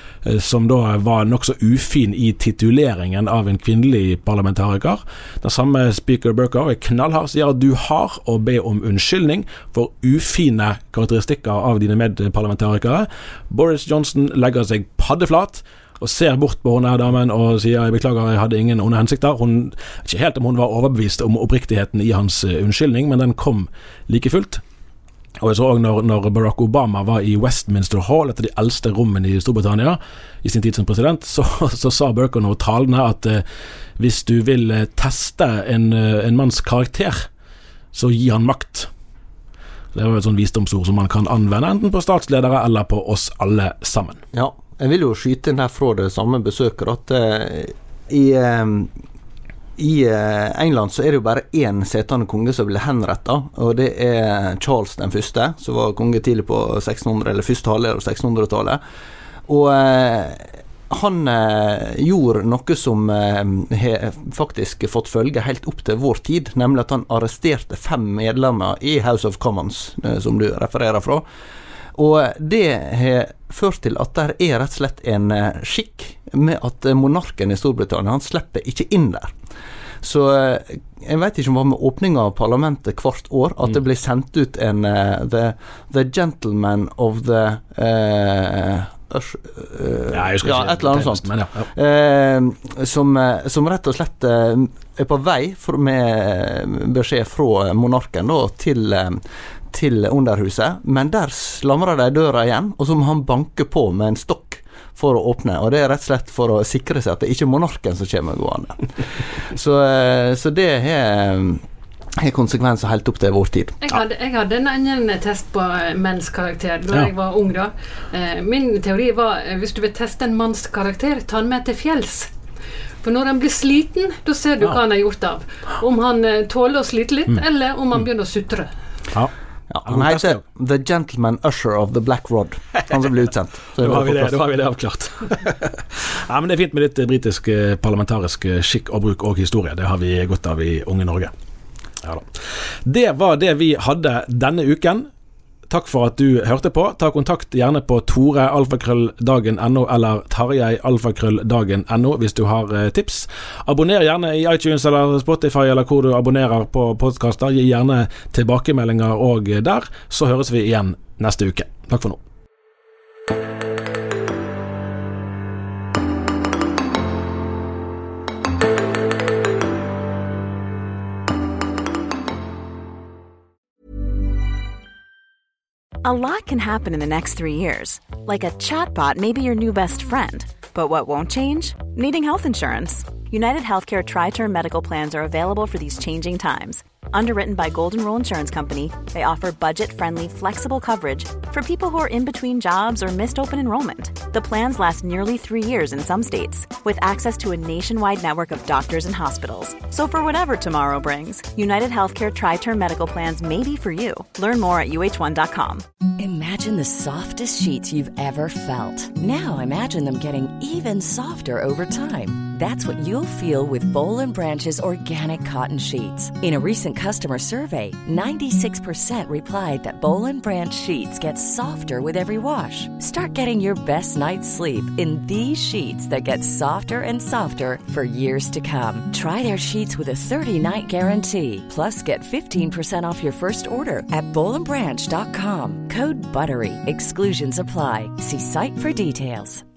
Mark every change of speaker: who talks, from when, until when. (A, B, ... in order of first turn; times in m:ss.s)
0:00.2-0:24.6 A
0:25.4-0:33.4 A
0:34.0-0:37.3 A
0:37.9-0:38.9 A
0:39.9-0:44.2 A
0:44.3-0:48.9 B
0:49.8-0:58.8 B
0:59.5-1:11.2 B
1:11.9-1:19.4 B
1:20.0-1:51.6 B
1:30.1-1:31.7 A
1:52.2-1:53.8 B
1:53.8-2:02.3 C
2:03.0-2:08.7 C
2:09.7-2:14.4 B
2:09.8-2:10.4 A
2:13.8-2:21.3 A
2:22.0-2:22.3 A
2:22.9-2:25.1 A
2:25.7-2:42.2 A
2:56.0-3:25.8 D
3:26.2-3:59.6 E